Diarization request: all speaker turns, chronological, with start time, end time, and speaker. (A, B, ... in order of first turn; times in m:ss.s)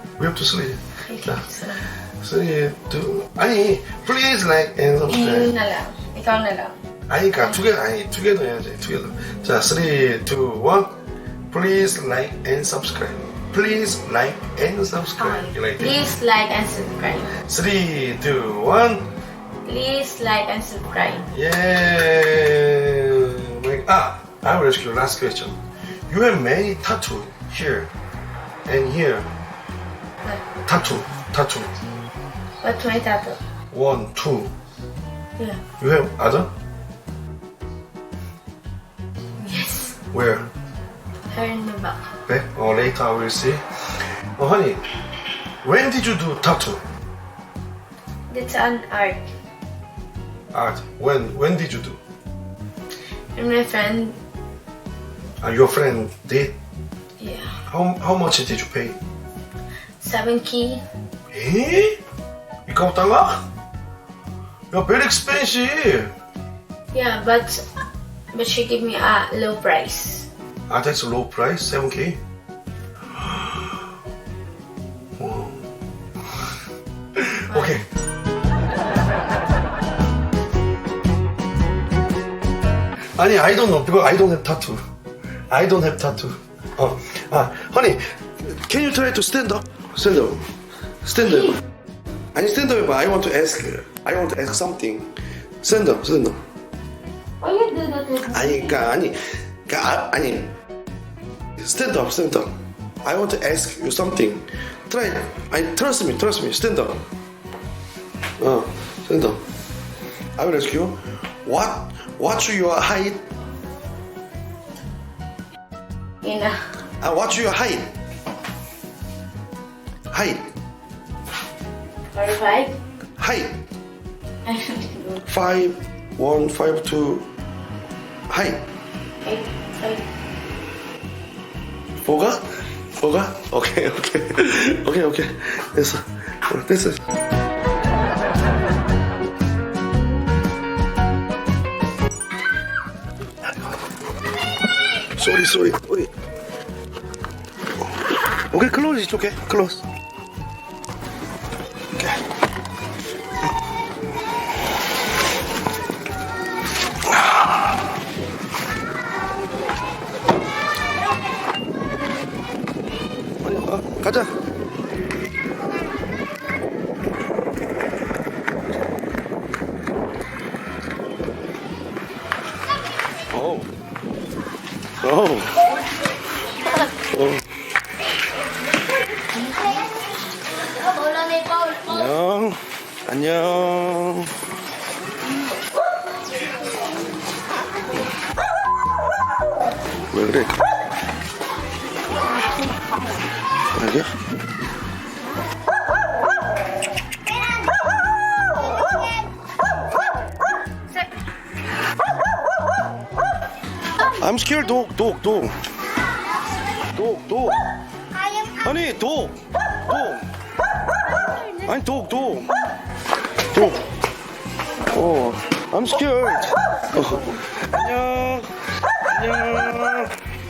0:00.2-0:01.4 A
0:01.0-0:01.9 B
0:02.2-0:05.5 A
0:05.1-0:06.8 B
0:07.1-0:11.0 A
0:11.5-0:16.0 A
0:15.2-0:17.3 B
0:17.4-0:19.1 A
0:19.6-0:21.3 B
0:21.3-0:27.9 A
0:28.6-0:29.3 A
0:30.6-0:31.7 A
0:32.6-0:33.4 B
0:33.7-0:34.5 A
0:35.4-0:35.6 B
0:35.8-0:36.5 A
0:39.4-0:40.0 B
0:40.1-0:40.5 A
0:41.3-0:42.1 B
0:42.2-0:44.8 A
0:45.6-0:46.8 A
0:48.3-0:49.3 B
0:50.5-0:52.0 A
0:53.3-0:54.2 B
0:55.4-0:56.5 A
0:57.2-0:57.6 B
0:57.6-0:59.0 A
1:00.0-1:00.8 B
1:01.3-1:02.0 A
1:02.7-1:03.4 A
1:04.7-1:06.1 A
1:06.9-1:07.7 B
1:08.3-1:10.3 B
1:10.7-1:12.2 A
1:13.1-1:13.7 A
1:15.2-1:15.6 A
1:17.2-1:17.8 A
1:17.5-1:17.8 B
1:23.2-1:24.8 A
1:25.5-1:31.6 A
1:32.3-1:36.4 A
1:37.4-1:39.0 B
1:38.2-1:40.5 A
1:41.6-1:47.0 A
1:48.4-1:49.4 A
1:50.4-1:53.2 A
1:56.2-1:56.8 B
1:56.9-1:57.9 A
2:00.1-2:00.5 A
2:02.1-2:02.8 B
2:03.2-2:03.6 A
2:04.4-2:05.2 B
2:05.2-2:07.3 A
2:08.3-2:08.6 A
2:09.2-2:10.1 B
2:12.0-2:17.0 A
2:25.1-2:26.1 A
2:28.5-2:29.8 A
2:37.1-2:37.6 A
2:43.4-2:44.3 A
2:53.3-2:53.7 A
2:55.0-2:55.7 A
2:57.1-2:57.4 A
3:00.9-3:01.8 B
3:01.8-3:04.4 A
3:10.1-3:10.6 A
3:13.7-3:14.1 A
3:24.1-3:25.6 A
3:26.9-3:27.6 A
3:28.4-3:30.3 A
3:31.6-3:32.6 A
3:33.5-3:33.8 A
3:34.9-3:38.5 A
3:39.1-3:40.1 A